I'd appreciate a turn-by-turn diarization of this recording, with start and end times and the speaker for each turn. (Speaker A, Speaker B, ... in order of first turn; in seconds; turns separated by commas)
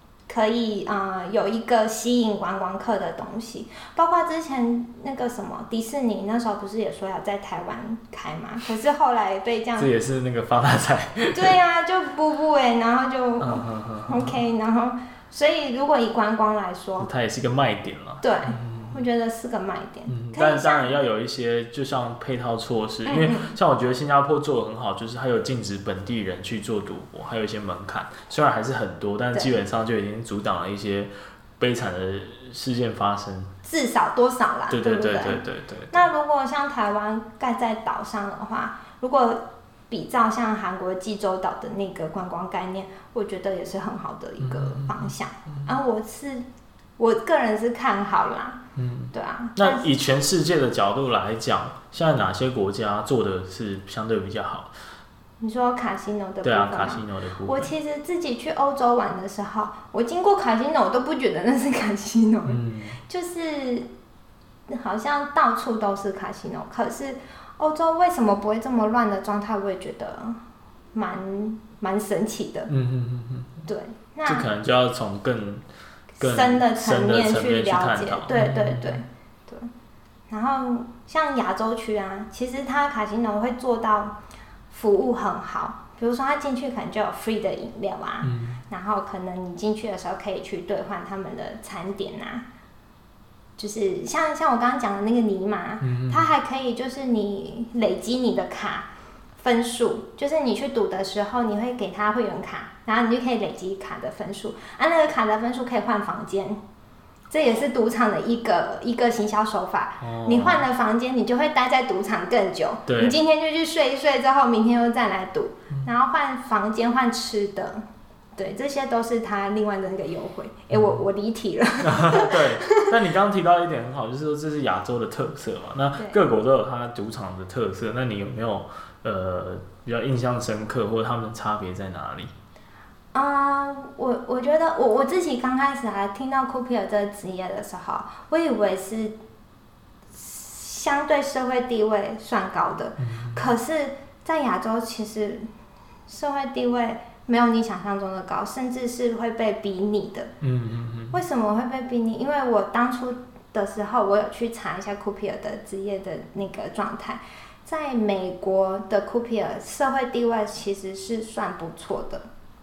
Speaker A: 0.3-9.9, Speaker B: 9.8-11.6, Speaker A: 11.3-17.1, Speaker B: 13.4-14.4, Speaker B: 17.0-19.0, Speaker A: 18.2-20.9, Speaker B: 20.1-33.5, Speaker A: 23.1-23.5, Speaker A: 33.6-46.5, Speaker B: 34.7-36.1, Speaker B: 44.4-45.1, Speaker A: 47.0-48.6, Speaker B: 48.8-54.7, Speaker A: 49.1-49.9, Speaker A: 55.4-63.9, Speaker B: 56.4-57.7, Speaker B: 62.5-63.0, Speaker A: 64.7-70.4, Speaker A: 70.9-72.7, Speaker B: 72.7-73.6, Speaker A: 73.7-74.5, Speaker B: 74.3-75.7, Speaker B: 76.2-79.0, Speaker A: 76.2-79.7, Speaker A: 80.3-84.2, Speaker A: 84.7-92.5, Speaker B: 88.2-88.6, Speaker A: 93.6-106.6, Speaker B: 95.8-96.3, Speaker A: 107.3-117.8, Speaker B: 110.0-110.7, Speaker B: 112.9-113.2, Speaker A: 118.4-122.9, Speaker B: 120.7-121.0, Speaker B: 121.8-132.3, Speaker A: 133.1-139.2, Speaker A: 140.1-145.4, Speaker B: 143.0-143.5, Speaker A: 146.1-150.3, Speaker B: 150.4-151.2, Speaker A: 151.1-162.2